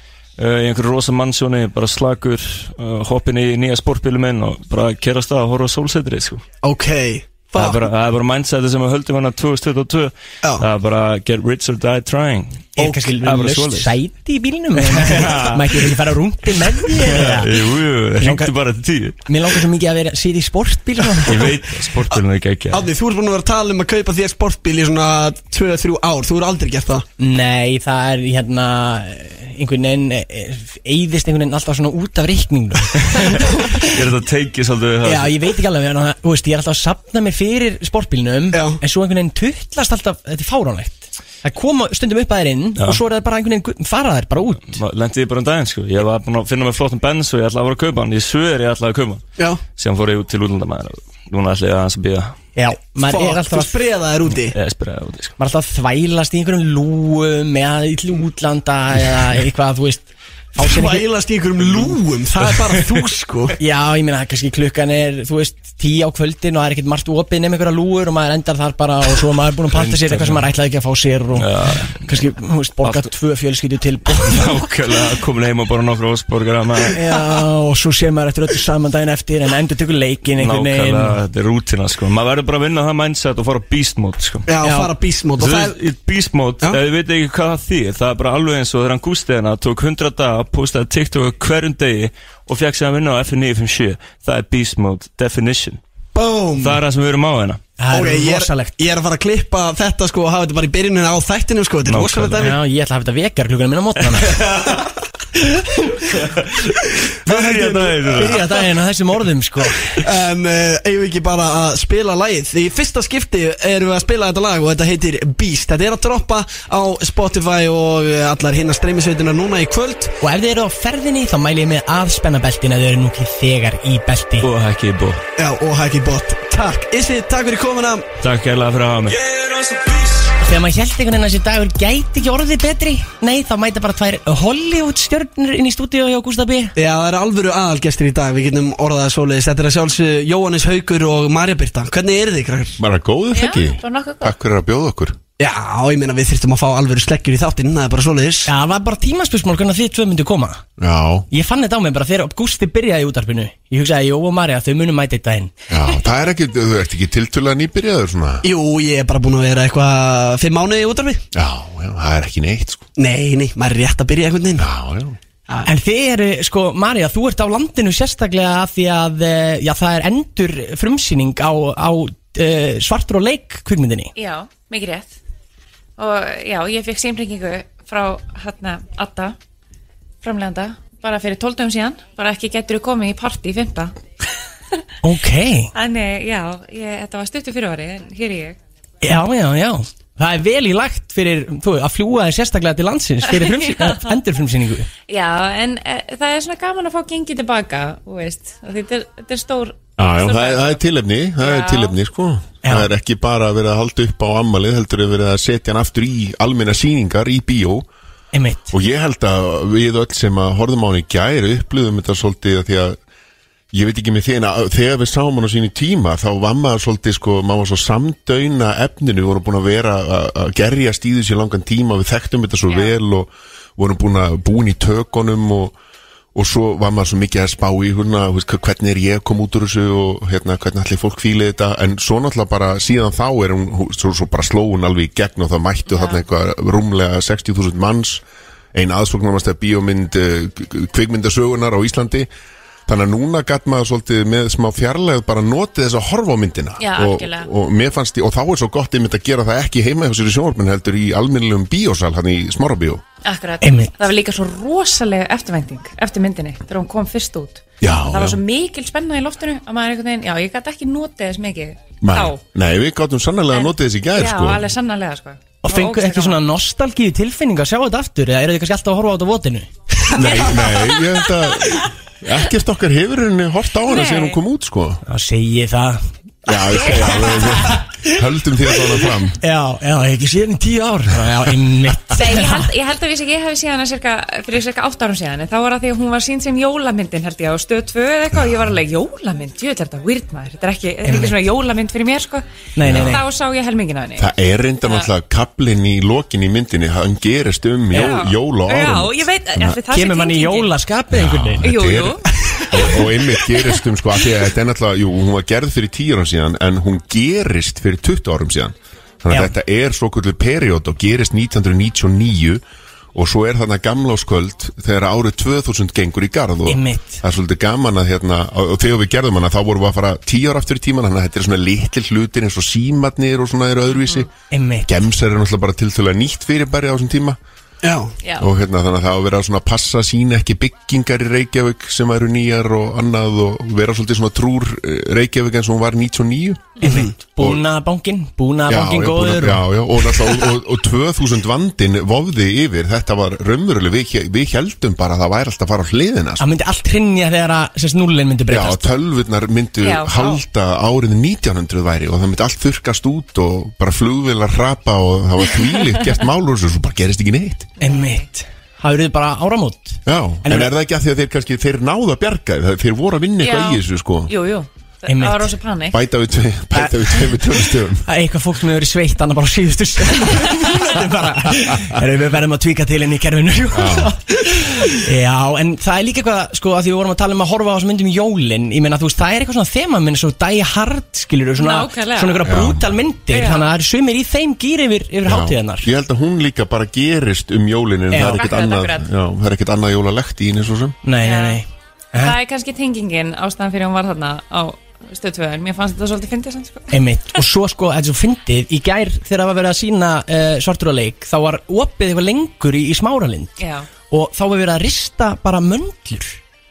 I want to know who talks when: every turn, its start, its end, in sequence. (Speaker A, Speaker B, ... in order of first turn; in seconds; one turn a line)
Speaker A: 0.4-6.4
Speaker B: 6.6-7.8
Speaker A: 7.5-13.9
Speaker C: 12.8-17.5
Speaker A: 14.9-15.8
Speaker A: 17.0-19.2
Speaker C: 18.2-18.5
Speaker C: 19.2-21.5
Speaker A: 21.2-22.9
Speaker B: 22.7-27.1
Speaker C: 27.2-34.0
Speaker A: 33.1-35.4
Speaker C: 35.0-44.8
Speaker B: 38.5-38.8
Speaker A: 44.6-49.2
Speaker A: 49.8-52.4
Speaker C: 52.5-53.7
Speaker B: 53.0-54.5
Speaker A: 54.3-55.3
Speaker C: 55.4-61.0
Speaker B: 60.5-63.6
Speaker C: 63.6-74.6
Speaker A: 69.7-70.4
Speaker A: 71.3-72.2
Speaker A: 72.8-73.1
Speaker A: 74.1-77.0
Speaker C: 76.9-81.2
Speaker A: 80.4-84.5
Speaker B: 84.5-85.7
Speaker C: 84.6-84.9
Speaker A: 85.4-95.8
Speaker B: 96.1-96.8
Speaker A: 96.6-97.6
Speaker C: 97.8-98.7
Speaker B: 97.9-102.5
Speaker A: 101.8-102.5
Speaker C: 102.4-104.4
Speaker B: 104.5-104.8
Speaker A: 106.1-106.6
Speaker A: 107.2-108.5
Speaker B: 107.2-108.4
Speaker C: 108.0-110.0
Speaker B: 110.0-120.1
Speaker C: 120.2-124.5
Speaker A: 124.4-125.2
Speaker B: 125.4-128.1
Speaker A: 128.2-130.3
Speaker C: 130.4-136.7
Speaker B: 136.8-142.8
Speaker D: 142.8-145.2
Speaker E: 143.3-144.3
Speaker B: 145.4-148.5
Speaker C: 148.4-150.6
Speaker D: 150.8-151.3
Speaker C: 151.3-155.5
Speaker D: 155.7-158.4
Speaker B: 158.4-161.2
Speaker D: 161.3-162.8
Speaker B: 163.0-164.7
Speaker D: 164.6-165.2
Speaker C: 165.6-174.1
Speaker E: 174.2-175.1
Speaker E: 176.0-179.3
Speaker E: 180.2-184.0
Speaker C: 185.0-185.7
Speaker E: 185.7-188.6
Speaker C: 189.0-194.9
Speaker E: 193.2-194.2
Speaker E: 195.1-200.8
Speaker D: 200.0-207.9
Speaker E: 201.4-201.9
Speaker C: 202.6-202.9
Speaker C: 208.3-208.7
Speaker D: 208.7-213.0
Speaker D: 213.7-225.7
Speaker D: 226.3-238.2
Speaker E: 235.9-236.2
Speaker D: 238.7-242.3
Speaker D: 242.9-253.0
Speaker E: 246.8-247.5
Speaker E: 253.2-262.4
Speaker C: 253.6-253.9
Speaker D: 257.8-258.4
Speaker D: 262.0-264.7
Speaker E: 263.5-266.4
Speaker C: 265.6-269.7
Speaker D: 270.1-275.0
Speaker B: 270.2-270.7
Speaker E: 273.9-274.4
Speaker C: 275.0-276.1
Speaker D: 276.4-279.4
Speaker E: 276.5-277.8
Speaker C: 279.4-282.7
Speaker E: 282.1-292.4
Speaker D: 288.3-288.7
Speaker C: 291.0-291.3
Speaker C: 292.8-293.2
Speaker D: 292.8-293.2
Speaker E: 293.0-294.3
Speaker D: 294.2-299.6
Speaker E: 297.9-300.7
Speaker C: 299.7-301.7
Speaker D: 301.1-312.6
Speaker E: 301.6-303.8
Speaker D: 313.1-324.3
Speaker C: 316.6-317.2
Speaker C: 324.5-324.9
Speaker D: 324.9-327.4
Speaker B: 327.8-328.1
Speaker E: 328.2-328.5
Speaker D: 328.4-336.8
Speaker C: 336.8-339.7
Speaker B: 336.8-337.1
Speaker D: 337.4-337.6
Speaker D: 338.7-346.4
Speaker C: 346.4-348.9
Speaker D: 348.5-357.7
Speaker E: 349.8-350.4
Speaker E: 357.8-358.2
Speaker C: 357.8-360.7
Speaker D: 360.1-364.3
Speaker E: 363.4-366.0
Speaker C: 365.1-365.5
Speaker D: 365.9-368.1
Speaker C: 366.8-367.2
Speaker C: 368.0-385.9
Speaker D: 373.7-374.1
Speaker E: 381.6-382.6
Speaker D: 382.4-382.9
Speaker E: 383.3-383.7
Speaker D: 385.2-391.0
Speaker C: 388.1-388.4
Speaker E: 388.2-389.1
Speaker C: 391.0-392.4
Speaker E: 391.2-391.6
Speaker E: 392.1-397.0
Speaker C: 396.9-403.6
Speaker E: 403.6-403.9
Speaker C: 404.1-406.4